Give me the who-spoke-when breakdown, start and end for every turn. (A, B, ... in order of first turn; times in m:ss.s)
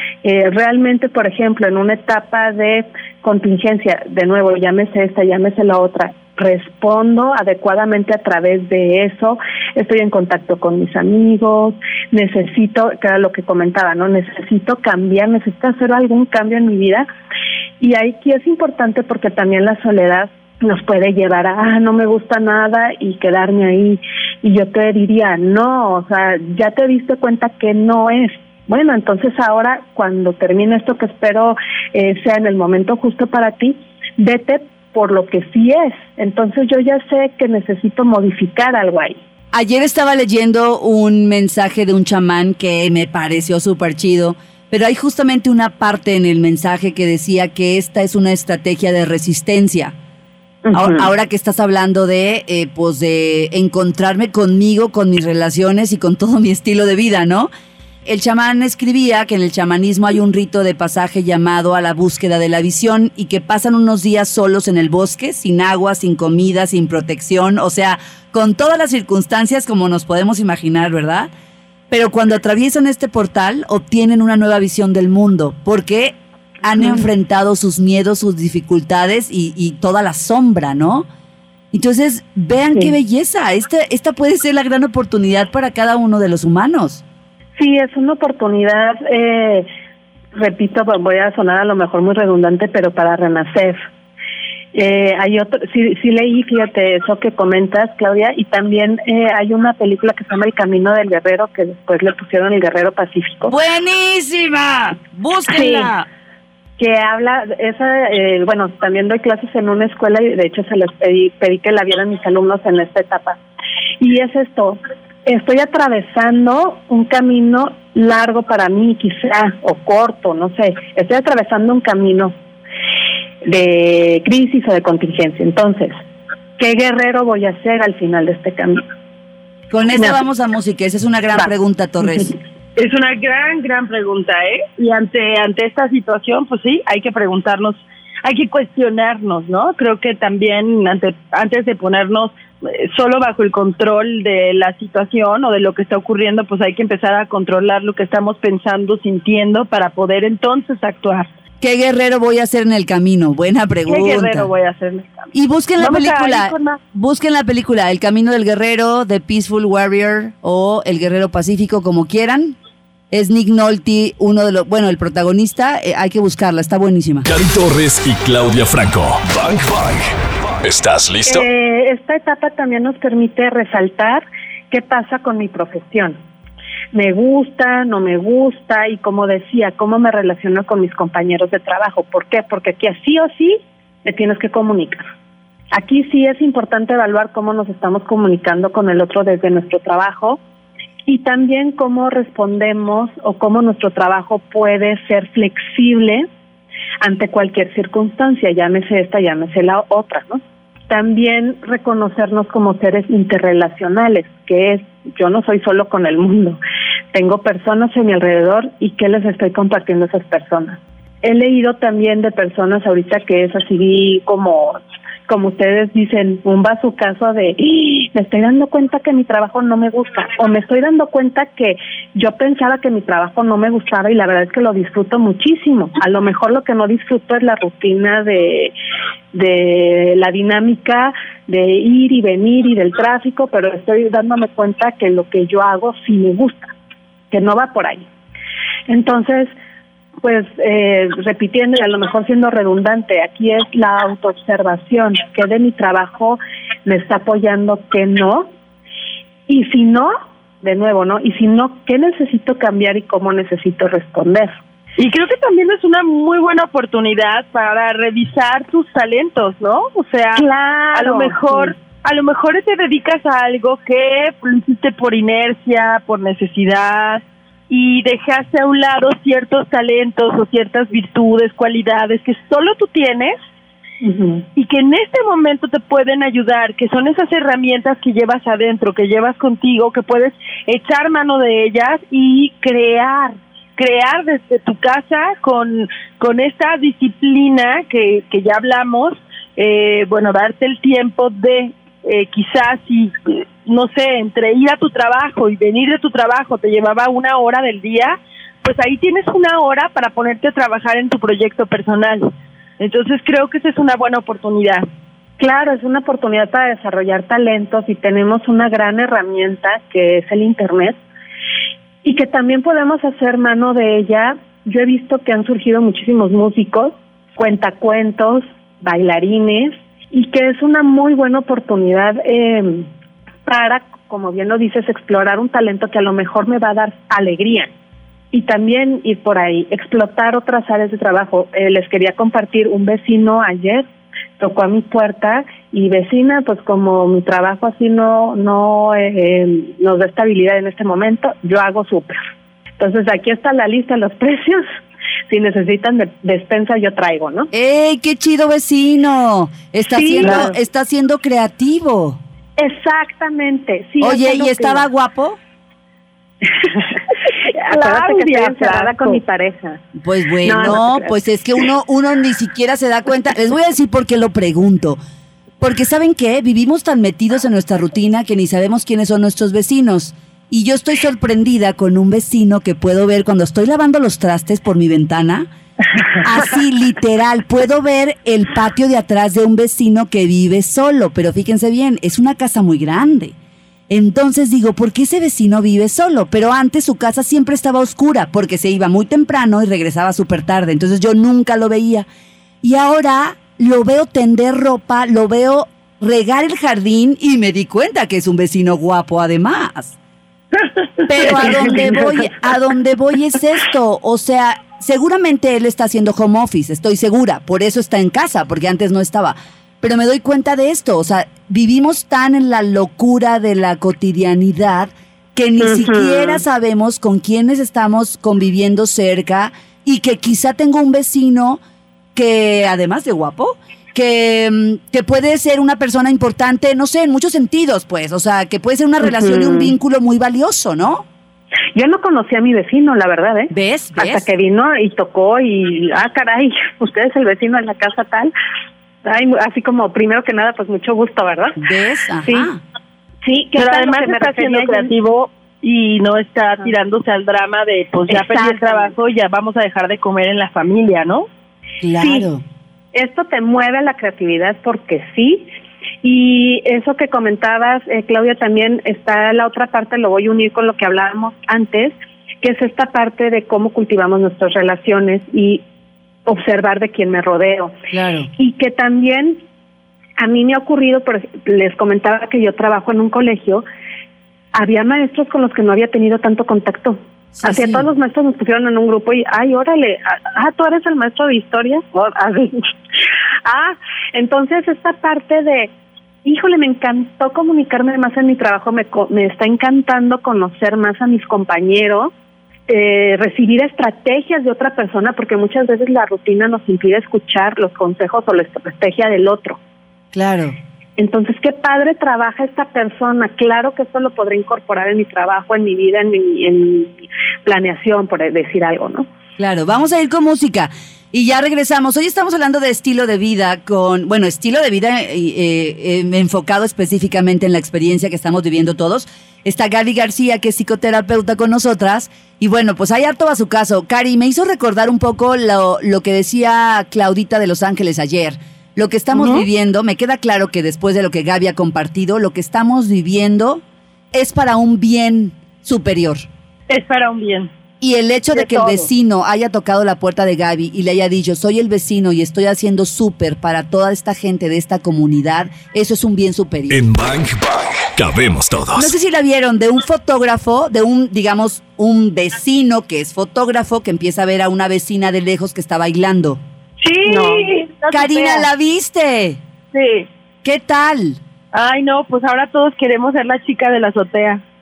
0:00.2-0:17.0 A
0:17.8-0:39.2 A
0:39.5-0:49.9 B
0:50.6-0:51.1 A
0:50.7-0:57.5 B
0:58.0-1:11.3 B
1:11.9-1:21.0 B
1:16.8-1:17.0 A
1:21.7-1:27.0 B
1:27.6-1:29.7 A
1:30.3-1:33.8 A
1:34.7-1:43.6 A
1:43.5-1:46.0 B
1:45.5-1:45.9 A
1:46.8-1:53.4 A
1:54.0-2:02.3 A
2:03.4-2:05.9 A
2:06.6-2:08.8 A
2:09.7-2:12.3 B
2:09.9-2:10.2 A
2:12.0-2:12.3 A
2:12.8-2:31.3 C
2:31.6-2:34.5 B
2:33.9-2:36.8 C
2:35.3-2:42.6 B
2:43.1-2:47.3 B
2:47.3-2:50.1 D
2:50.6-2:51.4 D
2:51.2-2:56.2 A
2:56.9-3:05.0 A
3:05.7-3:10.4 A
3:11.1-3:16.3 A
3:17.0-3:26.6 A
3:27.1-3:48.7 A
3:49.3-3:56.7 A
3:57.3-3:58.0 A
3:58.9-3:59.5 A
4:00.2-4:08.5 A
4:09.5-4:14.6 A
4:15.0-4:33.4 C
4:20.3-4:21.7 A
4:34.0-4:34.4 A
4:34.6-5:04.8 C
5:05.4-5:11.0 A
5:12.0-5:22.9 A
5:23.4-5:27.7 A
5:28.3-5:33.8 A
5:34.4-5:42.2 A
5:42.8-5:44.6 A
5:45.3-5:47.5 A
5:47.5-5:52.2 B
5:49.9-5:50.5 A
5:52.6-5:54.9 A
5:54.0-5:55.4 B
5:57.5-5:59.8 A
5:57.7-5:59.2 C
6:00.0-6:05.0 B
6:00.4-6:01.2 A
6:05.6-6:15.4 B
6:16.2-6:23.3 B
6:23.9-6:32.1 B
6:32.6-6:40.0 B
6:41.0-7:01.6 B
6:41.4-6:41.7 C
6:55.6-6:56.4 A
7:02.1-7:11.0 B
7:09.0-7:09.7 A
7:11.7-7:18.3 A
7:13.5-7:14.3 B
7:19.0-7:21.6 A
7:21.6-7:22.6 B
7:22.2-7:22.5 A
7:23.2-7:24.9 A
7:23.6-7:31.2 C
7:28.1-7:28.9 A
7:31.8-7:32.4 B
7:32.9-7:35.5 A
7:36.0-7:45.6 A
7:46.2-7:47.8 A
7:47.9-7:48.3 B
7:48.4-7:49.4 A
7:50.2-7:53.6 A
7:54.5-8:02.6 A
7:57.4-7:57.9 B
8:03.4-8:05.7 A
8:06.2-8:12.1 A
8:12.7-8:19.6 A
8:20.1-8:20.6 B
8:21.0-8:29.1 A
8:29.4-8:56.2 B
8:49.1-8:49.4 C
8:56.7-8:57.5 C
8:57.8-9:06.8 B
8:58.4-8:58.8 A
9:06.7-9:08.9 D
9:08.7-9:16.4 B
9:16.8-9:18.5 C
9:17.0-9:17.5 A
9:17.9-9:19.4 B
9:19.7-9:20.1 C
9:20.4-9:21.2 B
9:21.5-9:24.4 C